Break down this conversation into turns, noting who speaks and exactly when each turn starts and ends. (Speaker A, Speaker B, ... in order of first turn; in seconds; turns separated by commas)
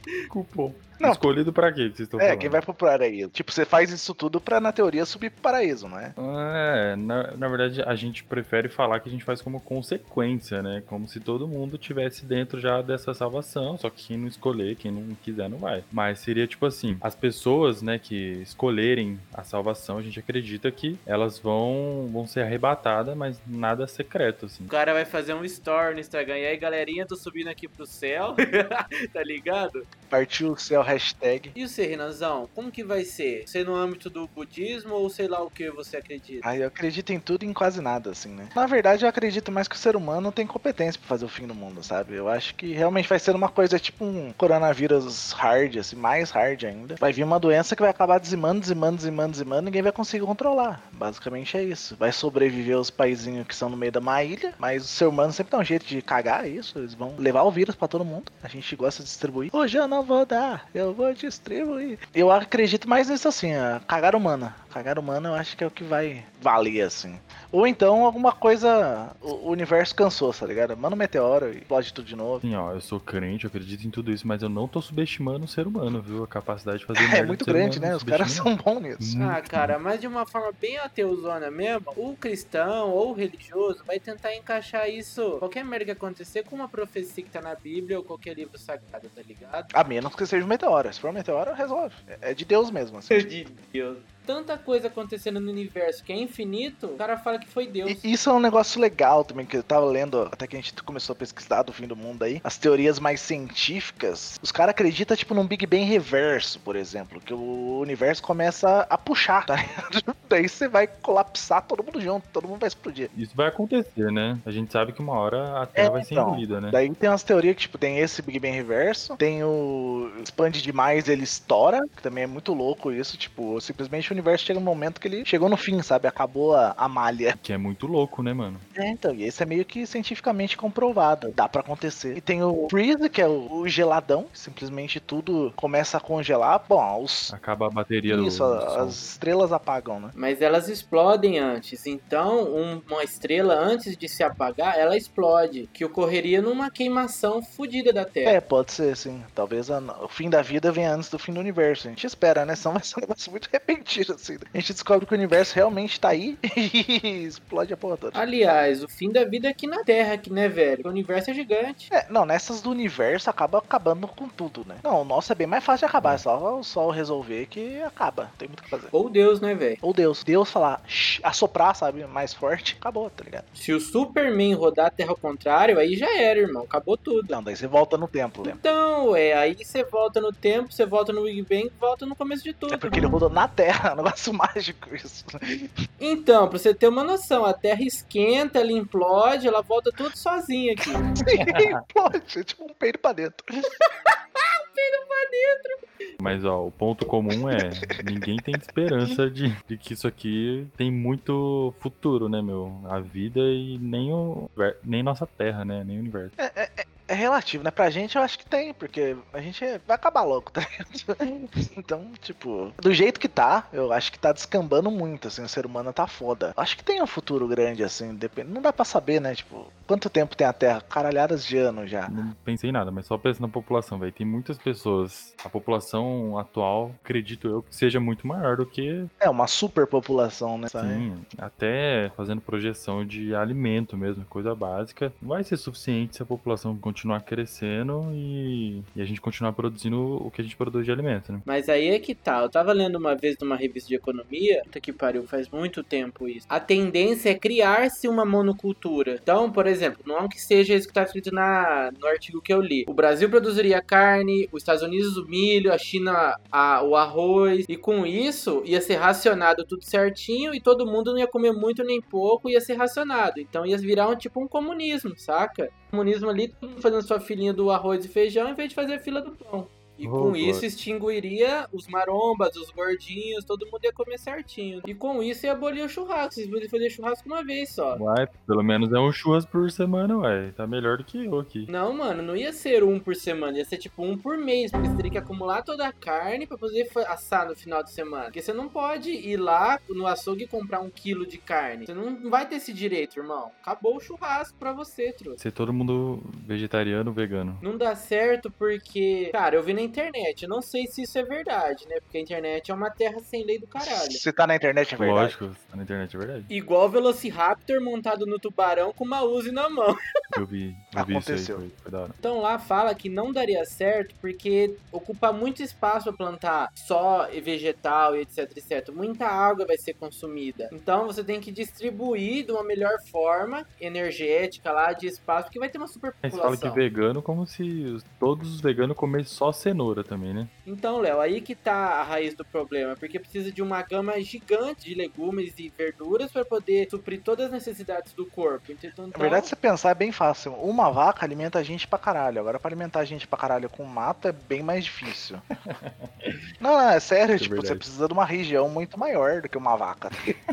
Speaker A: 0.3-2.6, Speaker B: 2.2-6.2, Speaker A: 6.2-24.7, Speaker C: 24.7-29.9, Speaker B: 30.1-31.5, Speaker C: 31.6-36.5, Speaker B: 36.4-72.4, Speaker A: 72.4-78.5, Speaker B: 77.0-79.2, Speaker A: 79.0-79.8, Speaker C: 79.2-89.7, Speaker B: 89.7-93.3, Speaker C: 93.1-98.0, Speaker B: 97.9-113.1, Speaker A: 113.1-116.8, Speaker B: 115.8-127.4, Speaker A: 127.4-128.7, Speaker B: 128.8-137.3, Speaker A: 137.3-139.0, Speaker B: 138.1-140.1, Speaker C: 140.2-148.4, Speaker B: 148.2-158.2, Speaker C: 158.1-161.9, Speaker B: 161.9-168.9, Speaker C: 168.9-169.8, Speaker B: 169.8-173.4, Speaker C: 173.6-177.3, Speaker B: 177.3-178.6, Speaker C: 178.4-183.1, Speaker B: 182.7-185.7, Speaker C: 186.0-191.0, Speaker B: 191.1-193.4, Speaker A: 191.4-191.7, Speaker C: 194.4-195.8, Speaker A: 196.2-206.3, Speaker B: 206.4-222.1, Speaker A: 222.1-229.1, Speaker B: 229.2-231.1, Speaker A: 230.8-241.4, Speaker C: 241.5-278.0, Speaker A: 270.0-270.6, Speaker A: 277.9-281.7, Speaker C: 281.7-295.4, Speaker A: 295.4-297.6, Speaker C: 297.6-304.2, Speaker B: 303.8-305.4, Speaker A: 305.0-306.5, Speaker C: 306.5-310.0, Speaker A: 310.3-312.2, Speaker B: 310.9-311.6, Speaker C: 312.2-326.8, Speaker A: 326.3-330.5, Speaker C: 330.7-339.5, Speaker B: 339.1-345.4, Speaker A: 345.7-346.4, Speaker B: 346.6-350.3, Speaker A: 347.4-347.8